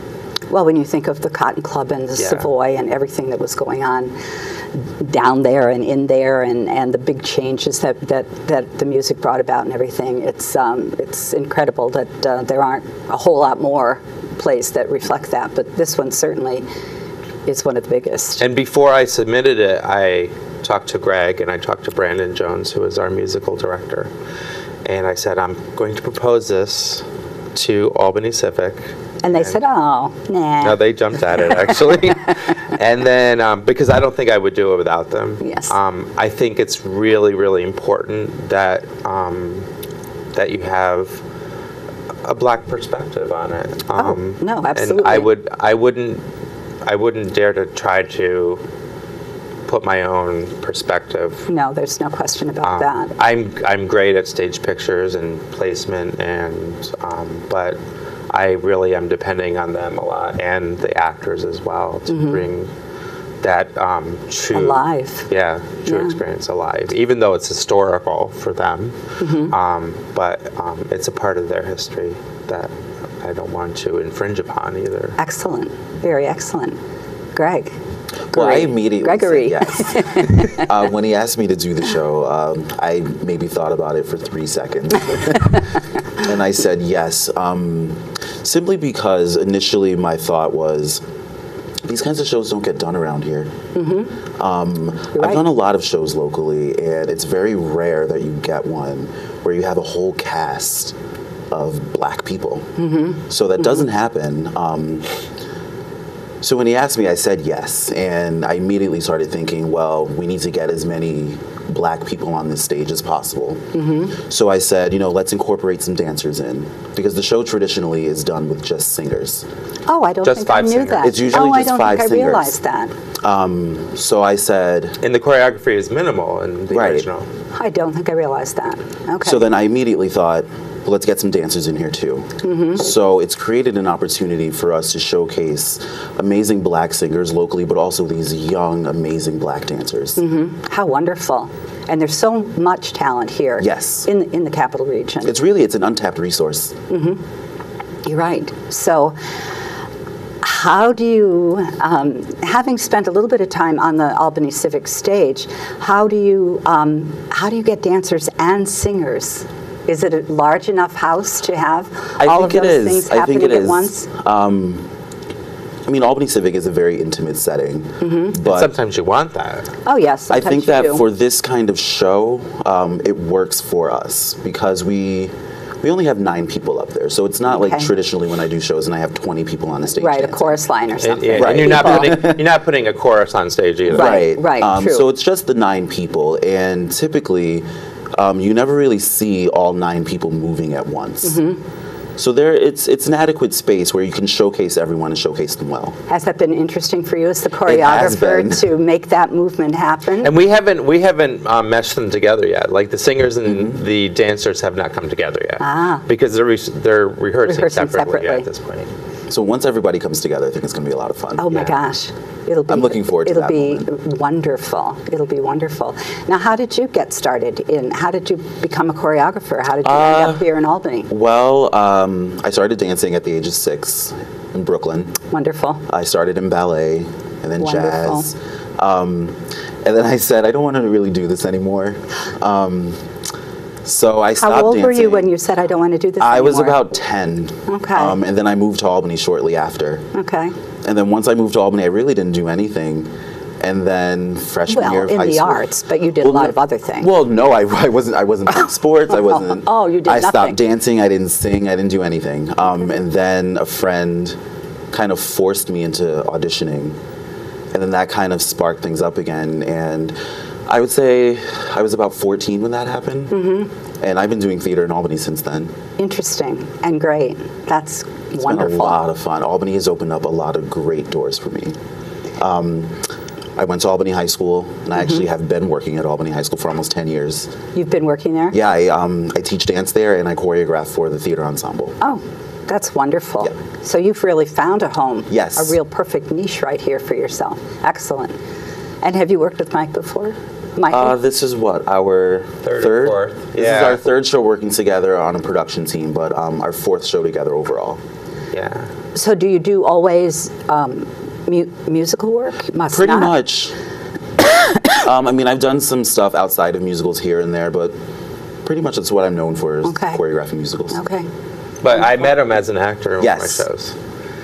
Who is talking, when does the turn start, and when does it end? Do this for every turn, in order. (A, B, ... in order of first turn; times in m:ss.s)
0:00.5-0:04.1 A
0:02.2-0:02.5 B
0:04.8-0:16.6 A
0:17.5-0:18.4 A
0:18.4-0:24.1 B
0:24.8-0:29.6 B
0:29.2-0:30.8 A
0:30.6-0:39.7 B
0:35.4-0:35.7 A
0:40.3-0:41.2 B
0:42.2-0:46.2 B
0:44.0-0:45.3 A
0:46.8-0:48.6 B
0:49.6-0:51.5 B
0:51.5-0:53.1 A
0:52.6-0:57.8 B
0:58.3-1:02.7 B
1:02.1-1:02.4 A
1:03.4-1:15.2 B
1:04.5-1:05.3 A
1:05.8-1:06.1 A
1:09.2-1:09.5 A
1:15.2-1:16.8 A
1:17.3-1:17.7 A
1:18.3-1:20.7 A
1:18.3-1:25.6 C
1:26.2-1:31.0 C
1:31.8-1:33.5 C
1:33.7-1:34.1 A
1:34.4-1:41.0 C
1:35.2-1:35.4 A
1:41.5-1:42.7 C
1:42.8-1:43.2 A
1:43.3-1:45.2 C
1:46.4-1:53.6 C
1:53.7-1:54.2 A
1:54.1-1:59.4 C
1:59.9-2:02.9 A
2:00.2-2:01.2 B
2:01.0-2:02.6 C
2:03.2-2:05.0 C
2:05.0-2:07.3 B
2:06.7-2:07.1 C
2:07.5-2:09.4 A
2:09.2-2:20.2 C
2:12.4-2:12.8 A
2:20.2-2:25.3 A
2:23.6-2:24.1 C
2:25.2-2:26.8 C
2:26.9-2:27.2 A
2:28.0-2:29.2 A
2:30.4-2:44.1 A
2:42.2-2:44.9 C
2:45.8-2:48.7 C
2:48.0-2:48.3 A
2:48.4-2:49.7 B
2:49.8-2:51.0 A
2:50.3-3:00.6 C
2:57.5-2:57.9 A
3:00.0-3:02.3 A
3:01.0-3:04.2 B
3:01.3-3:02.4 C
3:03.8-3:11.4 C
3:03.9-3:05.0 A
3:11.2-3:11.6 A
3:12.2-3:16.0 C
3:16.1-3:20.3 A
3:17.6-3:18.7 C
3:20.2-3:28.9 B
3:23.4-3:23.8 C
3:25.6-3:26.0 A
3:27.4-3:28.5 A
3:29.3-3:31.6 C
3:31.4-3:41.1 A
3:32.7-3:33.9 C
3:39.8-3:40.5 C
3:41.1-3:45.2 C
3:45.3-3:45.8 A
3:45.9-3:53.0 C
3:47.6-3:48.3 A
3:53.8-3:55.3 C
3:54.4-3:56.8 A
3:56.2-4:00.0 C
3:57.7-3:58.2 A
4:00.1-4:00.5 A
4:00.8-4:03.1 C
4:03.6-4:05.7 C
4:04.7-4:07.1 A
4:06.2-4:14.4 C
4:08.6-4:10.6 A
4:14.9-4:17.0 C
4:17.7-4:20.2 C
4:20.7-4:23.4 C
4:23.3-4:23.7 A
4:24.0-4:25.7 C
4:26.0-4:29.0 A
4:28.4-4:31.8 C
4:32.4-4:33.0 C
4:33.6-4:37.5 C
4:37.7-4:38.6 A
4:38.5-4:42.0 C
4:42.0-4:48.4 A
4:45.3-4:45.8 C
4:49.0-4:51.1 A
4:50.9-4:58.0 C
4:52.6-4:54.0 B
4:58.5-4:58.9 B
4:59.1-5:03.4 A
5:02.9-5:03.7 C
5:04.5-5:04.9 A
5:05.0-5:07.9 C
5:08.6-5:11.0 C
5:09.8-5:10.2 A
5:10.9-5:11.3 A
5:11.8-5:13.9 B
5:13.2-5:13.6 C